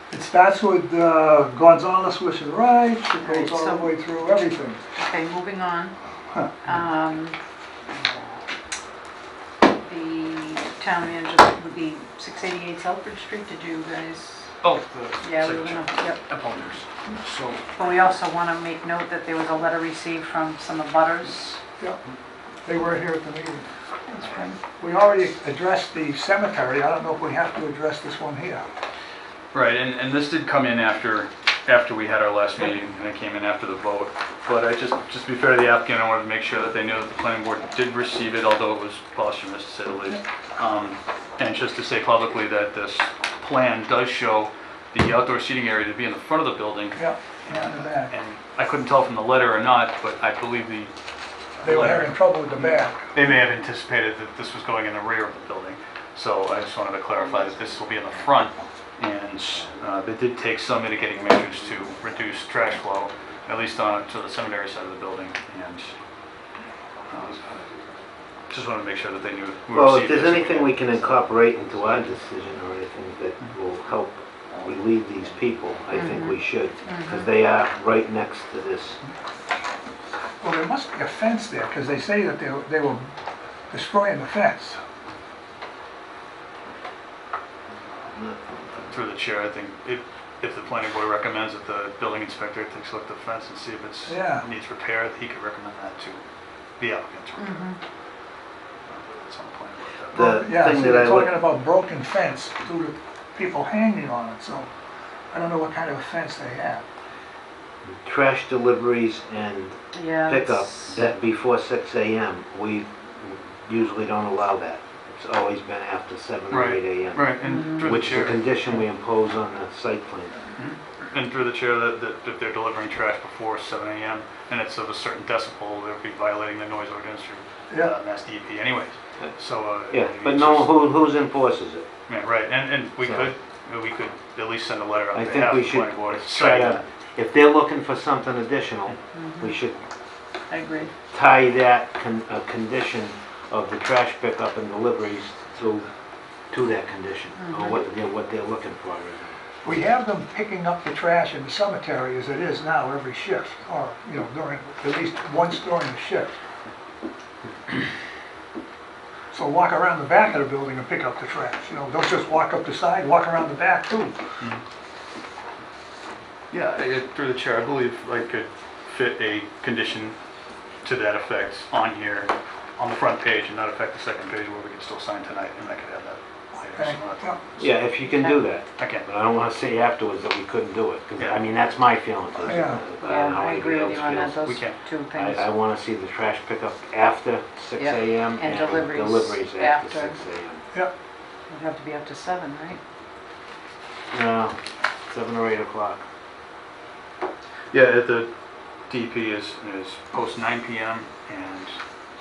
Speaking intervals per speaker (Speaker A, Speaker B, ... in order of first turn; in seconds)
Speaker A: 0.1-4.8, 22.6-28.6, 47.0-48.1, 51.6-53.1, 80.4-83.1, 83.7-84.8, 94.1-94.4, 100.1-104.7, 105.3-106.8, 149.6-156.3, 159.3-164.2, 176.7-177.4, 182.5-182.8
Speaker B: 3.2-4.0, 5.0-6.0, 6.6-7.3, 9.8-14.5, 15.2-16.2, 17.7-21.6, 75.9-77.3, 97.4-97.8, 109.9-111.0, 117.4-118.0, 139.1-139.6, 140.5-140.9, 147.4-147.8, 178.1-178.4, 183.0-185.5, 187.8-190.2, 191.5-192.8
Speaker C: 14.6-17.6, 29.5-50.9, 51.6-65.9, 67.1-67.5, 68.5-71.2, 88.8-96.2, 96.8-97.7, 98.9-100.2, 116.5-118.5, 120.5-130.7, 132.1-136.8, 166.5-170.2, 170.8-177.4, 178.8-179.1, 181.2-181.4, 182.4-182.6, 184.4-184.8, 197.7-201.8
Speaker D: 69.7-79.0, 100.1-101.3, 107.8-120.3, 129.9-131.8, 133.0-133.3, 135.1-139.8, 141.1-145.9, 146.5-149.3, 177.6-184.5, 185.1-190.6, 194.1-196.0